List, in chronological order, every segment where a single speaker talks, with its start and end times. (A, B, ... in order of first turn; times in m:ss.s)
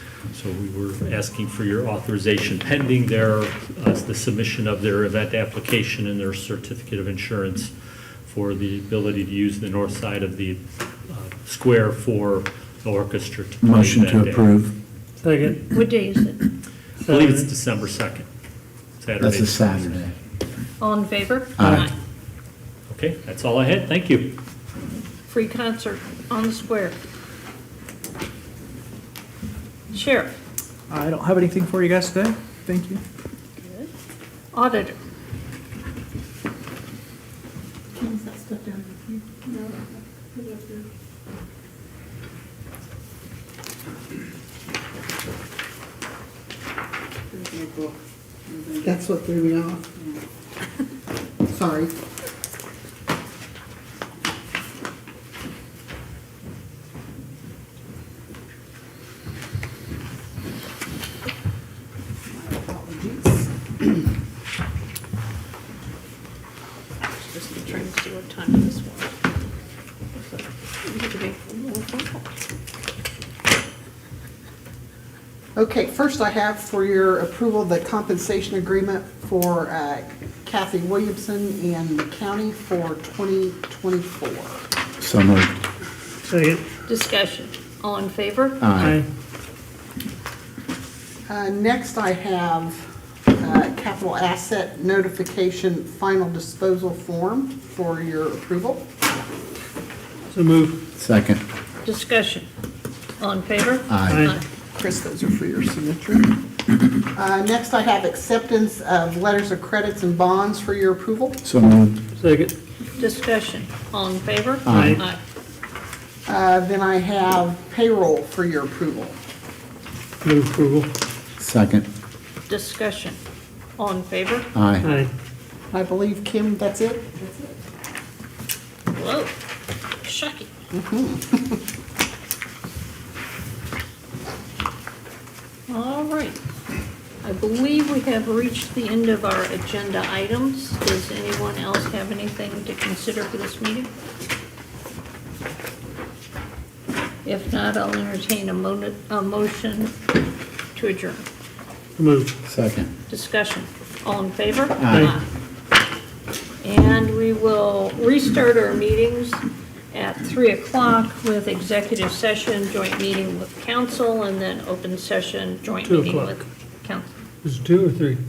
0:00.3-0:07.7 A
0:08.2-0:14.5 A
0:13.6-0:14.7 B
0:15.2-0:15.6 C
0:15.7-0:16.5 D
0:17.0-0:17.4 C
0:17.0-0:18.3 A
0:19.0-0:20.1 A
0:19.2-0:20.1 B
0:20.8-0:21.9 D
0:21.6-0:21.9 B
0:22.9-0:24.4 A
0:25.3-0:27.0 D
0:29.9-0:30.3 D
0:30.9-0:33.0 E
0:33.6-0:33.9 D
0:34.5-0:35.0 D
0:38.0-0:38.7 F
0:39.4-0:39.8 F
0:40.4-0:40.8 F
0:48.8-0:49.9 F
0:51.5-0:51.9 F
1:02.3-1:03.5 F
1:07.1-1:09.1 D
1:10.2-1:12.3 D
1:15.6-1:24.6 F
1:25.0-1:25.6 B
1:26.3-1:26.6 C
1:26.9-1:28.7 D
1:28.6-1:29.0 B
1:28.8-1:29.0 C
1:31.3-1:32.8 F
1:33.4-1:38.8 F
1:40.3-1:40.8 C
1:41.0-1:41.4 B
1:41.8-1:42.5 D
1:43.2-1:44.4 D
1:43.9-1:44.3 B
1:44.0-1:44.3 C
1:44.8-1:46.4 F
1:47.1-1:51.4 F
1:51.4-1:52.0 B
1:52.1-1:52.5 C
1:53.0-1:55.2 D
1:54.7-1:55.0 B
1:54.7-1:55.0 C
1:56.2-1:59.2 F
2:00.2-2:00.9 C
2:01.4-2:01.8 B
2:02.5-2:03.2 D
2:03.8-2:04.5 D
2:04.5-2:04.9 B
2:04.8-2:05.1 C
2:05.7-2:07.3 F
2:08.9-2:09.3 D
2:10.0-2:10.5 D
2:10.7-2:11.6 F
2:15.7-2:16.4 D
2:17.2-2:23.9 D
2:27.2-2:29.9 D
2:30.7-2:31.2 D
2:32.0-2:32.3 C
2:32.4-2:32.9 B
2:33.1-2:35.2 D
2:34.8-2:35.1 B
2:34.9-2:35.1 C
2:36.6-2:47.1 D
2:45.8-2:46.4 C
2:47.4-2:48.2 C